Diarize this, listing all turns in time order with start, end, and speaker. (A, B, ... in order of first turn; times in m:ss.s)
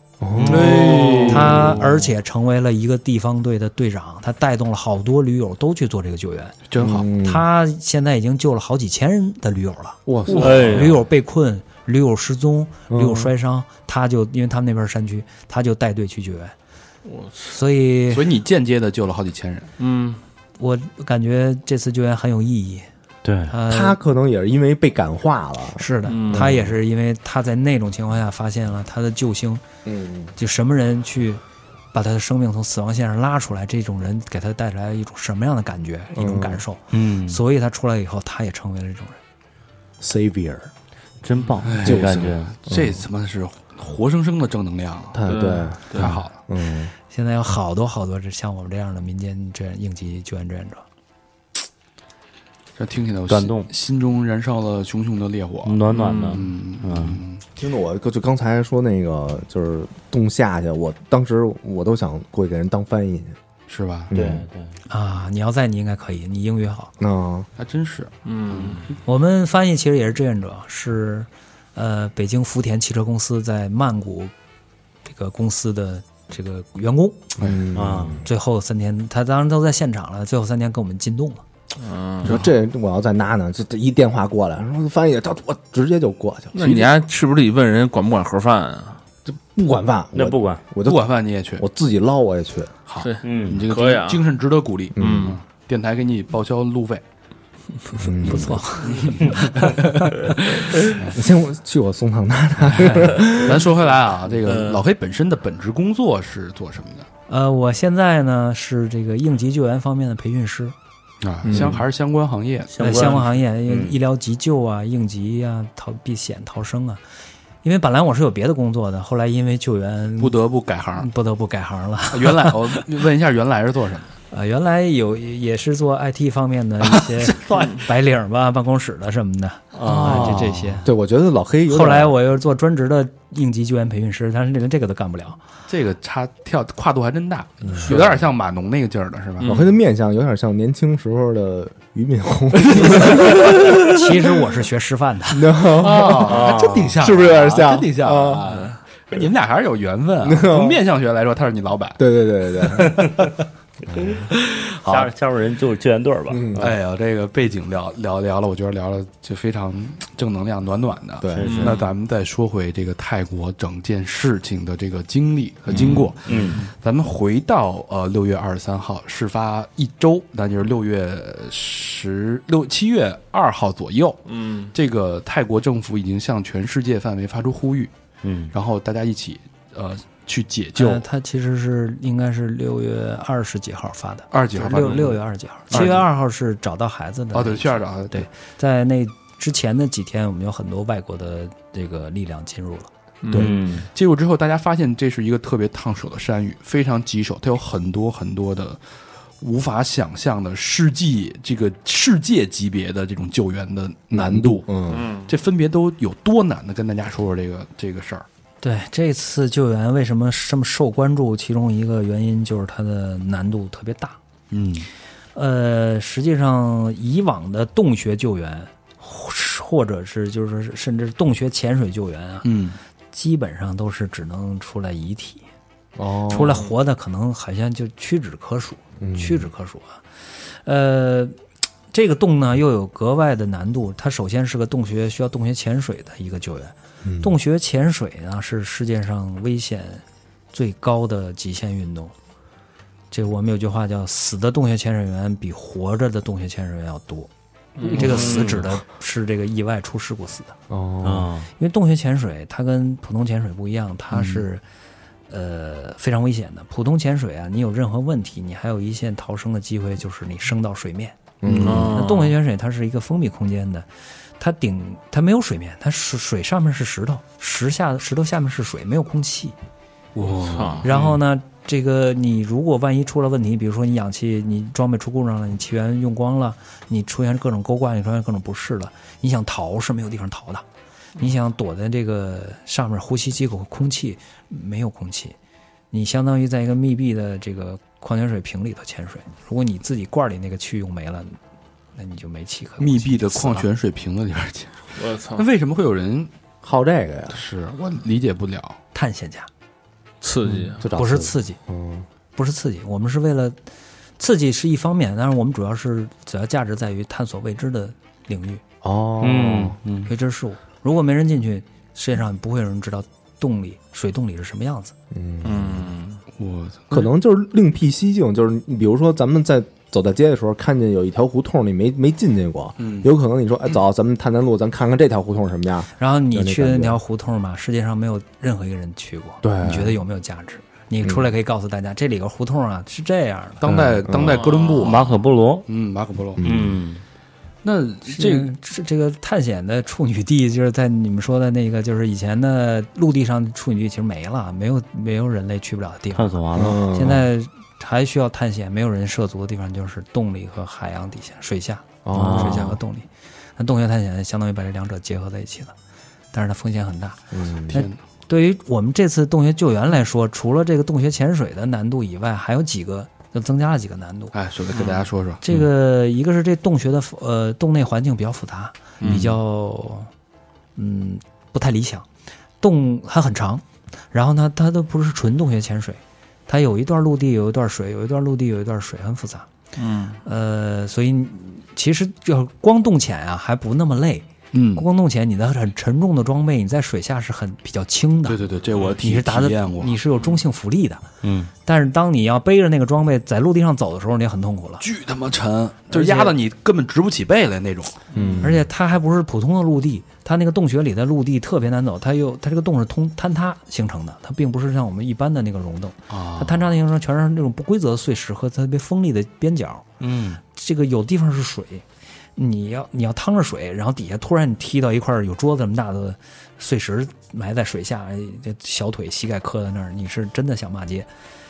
0:00.2-0:01.9 A
0:00.4-0:01.3 B
0:00.4-0:01.8 C
0:01.3-0:06.6 D
0:06.7-0:07.1 C
0:06.8-0:07.5 A
0:07.2-0:16.5 D
0:10.1-0:10.8 A
0:10.4-0:11.0 B
0:10.5-0:10.9 E
0:12.9-0:13.3 A
0:17.0-0:17.6 E
0:17.5-0:18.3 D
0:18.1-0:19.7 C
0:19.8-0:20.2 E
0:20.6-0:22.9 D
0:23.2-0:23.6 B
0:23.5-0:24.0 D
0:23.7-0:26.8 A
0:25.8-0:29.6 D
0:26.0-0:26.5 E
0:29.8-0:30.3 A
0:30.4-0:31.4 D
0:31.9-0:39.2 D
0:36.1-0:36.6 A
0:36.9-0:37.4 B
0:40.0-0:40.7 A
0:41.2-0:42.5 B
0:41.6-0:45.3 C
0:41.8-0:43.0 A
0:45.1-0:46.9 A
0:45.3-0:46.2 E
0:45.9-0:46.3 C
0:47.1-0:50.8 D
0:52.8-0:57.4 C
0:53.3-0:53.7 B
0:55.6-0:57.2 B
0:55.9-0:56.4 E
0:57.6-1:03.4 A
1:03.7-1:04.1 C
1:04.1-1:04.5 A
1:04.1-1:04.8 B
1:04.9-1:06.9 D
1:07.0-1:07.5 A
1:07.6-1:08.9 C
1:08.2-1:08.9 E
1:09.0-1:14.3 D
1:15.0-1:17.3 D
1:17.4-1:17.6 C
1:17.4-1:18.3 A
1:17.7-1:18.2 B
1:18.2-1:21.4 D
1:21.8-1:22.3 E
1:22.2-1:26.8 A
1:26.5-1:29.0 E
1:29.3-1:32.8 A
1:30.1-1:30.6 B
1:30.8-1:31.6 C
1:32.9-1:37.0 C
1:33.0-1:34.2 E
1:33.2-1:33.6 B
1:35.0-1:35.4 A
1:35.0-1:35.4 E
1:38.0-1:38.6 A
1:38.2-1:40.1 D
1:38.9-1:39.8 C
1:40.8-1:41.2 C
1:41.0-1:43.7 A
1:42.7-1:47.1 C
1:44.5-1:44.8 E
1:47.3-1:50.8 D
1:51.2-1:53.2 C
1:51.5-1:51.8 A
1:52.7-1:54.0 B
1:52.8-1:57.0 D
1:57.6-2:00.4 D
2:00.2-2:01.1 C
2:01.0-2:02.8 D
2:02.1-2:04.1 C
2:04.3-2:10.9 D
2:07.0-2:07.3 C
2:09.8-2:10.8 B
2:10.1-2:12.2 A
2:11.7-2:15.4 D
2:15.7-2:19.6 C
2:17.6-2:18.2 A
2:19.4-2:19.7 E
2:19.4-2:24.1 A
2:23.8-2:25.6 D
2:25.3-2:28.6 A
2:25.7-2:32.0 C
2:26.2-2:27.0 B
2:30.2-2:30.8 A
2:32.0-2:33.1 A
2:33.9-2:34.3 A
2:34.0-2:36.7 B
2:36.3-2:36.7 A
2:36.6-2:57.9 C
2:41.2-2:41.7 A
2:41.4-2:41.8 B
2:41.4-2:41.7 E
2:45.7-2:46.4 A
2:45.8-2:46.6 B
2:54.3-2:54.7 E
2:58.2-2:58.5 B
2:58.5-3:01.0 C
3:00.8-3:12.9 D
3:04.3-3:06.0 C
3:07.3-3:08.3 C
3:13.2-3:13.5 E
3:13.3-3:13.9 B
3:13.3-3:18.8 C
3:19.4-3:24.7 C
3:24.1-3:25.1 A
3:24.9-3:25.3 E
3:25.3-3:28.3 C
3:28.6-3:34.2 D
3:34.5-3:34.9 C
3:35.4-3:42.5 D
3:42.4-3:42.8 C
3:43.1-3:45.4 D
3:46.0-3:46.6 A
3:46.3-3:51.4 D
3:49.0-3:49.5 A
3:51.9-4:02.1 D
3:57.0-3:57.3 A
4:03.1-4:07.3 D
4:07.8-4:08.4 E
4:07.8-4:10.6 D
4:07.9-4:08.7 B
4:10.7-4:11.4 A
4:11.0-4:11.5 B
4:11.6-4:14.6 D
4:14.1-4:14.4 A
4:15.3-4:23.9 D
4:21.4-4:22.0 A
4:21.6-4:22.4 E
4:24.4-4:29.6 D
4:30.2-4:31.2 E
4:30.8-4:40.6 D
4:41.2-4:45.4 D
4:45.9-4:51.4 D
4:52.0-4:53.7 D
4:52.8-4:56.3 C
4:55.0-4:55.5 E
4:56.6-4:57.4 A
4:57.3-4:58.8 C
4:58.9-4:59.5 D
5:00.2-5:00.8 E
5:00.5-5:02.1 A
5:00.9-5:01.6 D
5:02.3-5:03.6 D
5:04.2-5:08.6 D
5:08.8-5:09.8 A
5:09.2-5:10.1 B
5:10.1-5:14.9 D
5:15.1-5:15.9 A
5:15.4-5:16.2 E
5:16.4-5:17.1 C
5:16.9-5:27.0 A
5:22.8-5:23.1 C
5:26.0-5:33.6 D
5:29.4-5:30.0 A
5:31.0-5:31.3 A
5:33.6-5:35.1 C
5:33.6-5:34.5 A
5:34.3-5:34.9 E
5:34.8-5:35.7 B
5:35.7-5:36.4 C
5:36.4-5:36.8 A
5:36.4-5:37.0 B
5:37.6-5:38.5 C
5:38.1-5:55.7 D
5:46.2-5:46.9 B
5:46.5-5:47.3 A
5:52.0-5:52.8 A
5:52.1-5:52.8 B
5:56.3-6:04.3 D
5:57.3-5:57.9 A
5:57.7-5:58.0 C
6:04.3-6:05.4 C
6:05.4-6:10.1 D
6:09.0-6:09.3 C
6:10.8-6:12.1 D
6:12.6-6:19.5 D
6:19.8-6:20.2 E
6:20.2-6:28.4 D
6:24.5-6:24.8 C
6:28.3-6:30.0 C
6:29.0-6:31.1 D
6:31.2-6:31.5 B
6:31.6-6:34.9 D
6:34.8-6:38.0 C
6:35.9-6:36.4 D
6:38.1-6:38.4 E
6:38.1-6:38.7 A
6:38.4-6:49.9 D
6:46.1-6:46.6 C
6:50.0-6:50.4 B
6:50.5-6:51.8 D
6:52.4-7:01.1 D